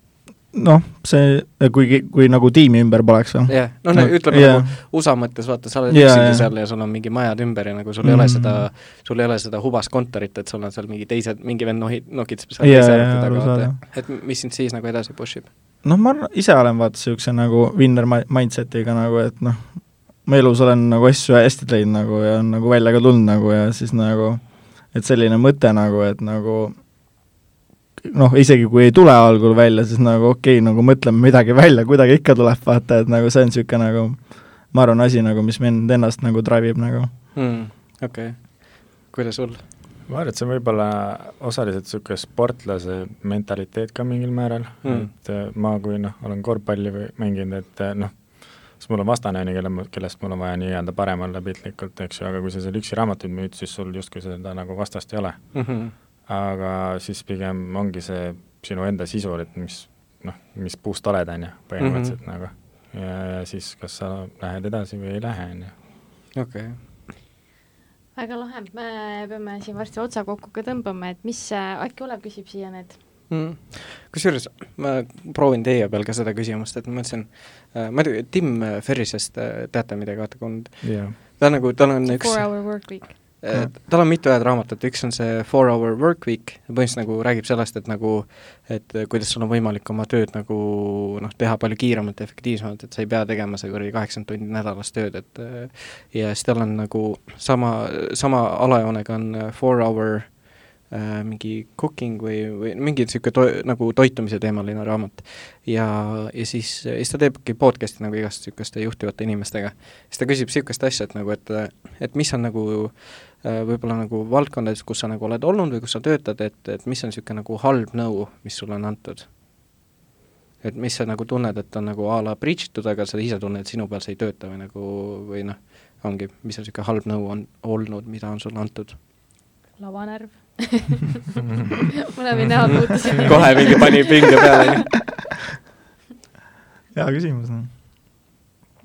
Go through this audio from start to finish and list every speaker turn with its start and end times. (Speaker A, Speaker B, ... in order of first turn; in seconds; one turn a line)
Speaker A: 0.5-5.3
Speaker B: 3.5-15.5
Speaker A: 5.9-6.5
Speaker A: 8.0-8.7
Speaker A: 12.6-13.8
Speaker A: 15.8-27.2
Speaker A: 28.0-37.2
Speaker B: 37.3-39.7
Speaker C: 40.0-65.7
Speaker B: 44.8-45.1
Speaker B: 55.5-55.9
Speaker B: 61.8-62.1
Speaker B: 66.3-66.9
Speaker D: 68.2-73.0
Speaker B: 73.3-119.3
Speaker C: 80.8-81.2
Speaker D: 82.0-83.2
Speaker B: 120.6-129.0
Speaker D: 129.8-131.2
Speaker D: 132.1-134.6
Speaker B: 132.6-135.0
Speaker A: 136.9-137.7